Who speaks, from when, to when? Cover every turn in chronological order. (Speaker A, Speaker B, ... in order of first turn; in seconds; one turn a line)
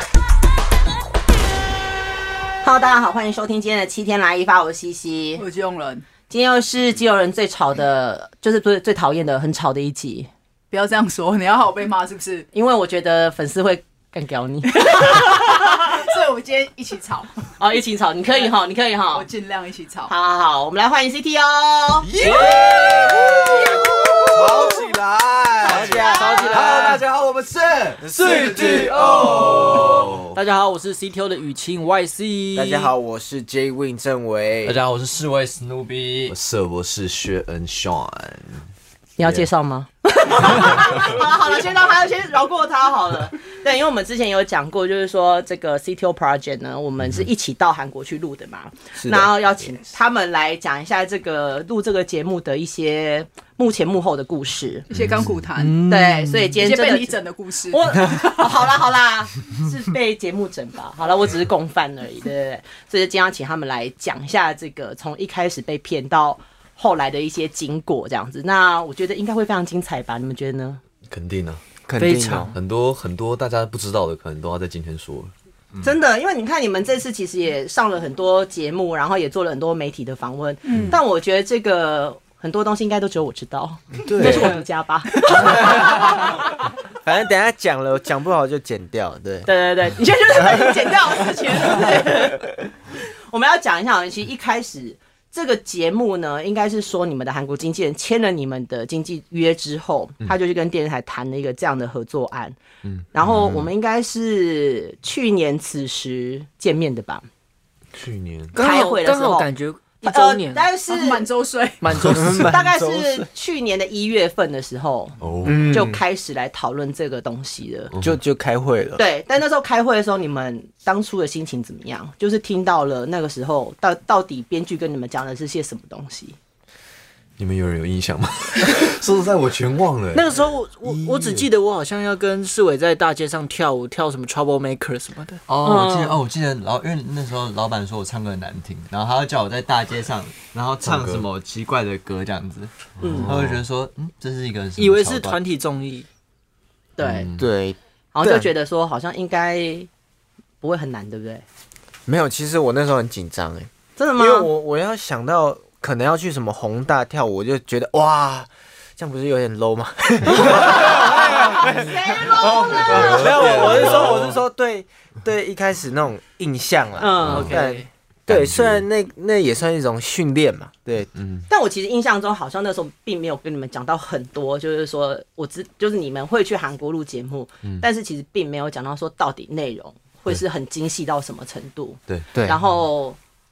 Speaker A: 2.6-5.4
Speaker B: 5.4-6.0
Speaker A: 6.3-10.3
Speaker B: 10.7-12.5
Speaker A: 12.5-16.0
Speaker B: 14.7-17.3
Speaker A: 17.6-19.3
Speaker B: 19.1-20.1
Speaker A: 20.1-22.1
Speaker C: 22.1-23.4
Speaker D: 22.1-23.4
Speaker E: 22.2-23.2
Speaker F: 23.8-24.7
Speaker D: 24.3-30.3
Speaker F: 25.6-27.0
Speaker C: 25.6-27.1
Speaker A: 25.8-26.7
Speaker F: 28.0-29.9
Speaker C: 28.0-30.1
Speaker E: 30.3-32.9
Speaker F: 32.5-34.8
Speaker C: 34.6-36.4
Speaker D: 36.3-38.7
Speaker A: 39.2-54.9
Speaker D: 39.2-39.5
Speaker F: 49.0-49.3
Speaker B: 54.9-58.6
Speaker D: 54.9-55.4
Speaker E: 55.5-56.1
Speaker A: 55.8-70.8
Speaker D: 71.1-71.6
Speaker F: 71.9-72.6
Speaker E: 72.0-72.5
Speaker D: 72.5-75.3
Speaker A: 75.8-86.7
Speaker D: 80.7-81.0
Speaker D: 84.1-84.5
Speaker F: 84.1-84.5
Speaker F: 85.3-86.0
Speaker F: 87.0-89.5
Speaker A: 89.5-102.6
Speaker F: 90.3-90.9
Speaker D: 102.8-103.7
Speaker A: 103.1-107.2
Speaker D: 107.9-108.5
Speaker E: 108.5-110.7
Speaker A: 108.5-109.5
Speaker A: 110.0-111.3
Speaker B: 110.9-111.8
Speaker E: 111.8-112.5
Speaker F: 112.1-113.3
Speaker A: 112.5-117.9
Speaker D: 115.2-115.7
Speaker F: 115.4-116.0
Speaker D: 117.9-118.2
Speaker F: 118.0-119.0
Speaker A: 119.0-126.4
Speaker D: 127.4-131.5
Speaker E: 130.1-135.4
Speaker C: 135.5-145.4
Speaker A: 135.6-136.2
Speaker D: 140.8-141.3
Speaker D: 143.0-143.6
Speaker A: 143.0-143.3
Speaker E: 144.8-146.1
Speaker A: 147.0-147.3
Speaker D: 147.0-147.5
Speaker F: 147.4-148.5
Speaker A: 148.2-149.9
Speaker A: 150.6-151.4
Speaker F: 152.1-171.1
Speaker A: 154.0-154.5
Speaker A: 161.3-164.0
Speaker D: 162.3-164.4
Speaker A: 167.0-167.8
Speaker D: 167.2-167.6
Speaker E: 167.4-167.9
Speaker D: 168.3-168.8
Speaker D: 171.1-171.5
Speaker A: 171.5-183.2
Speaker F: 182.3-182.6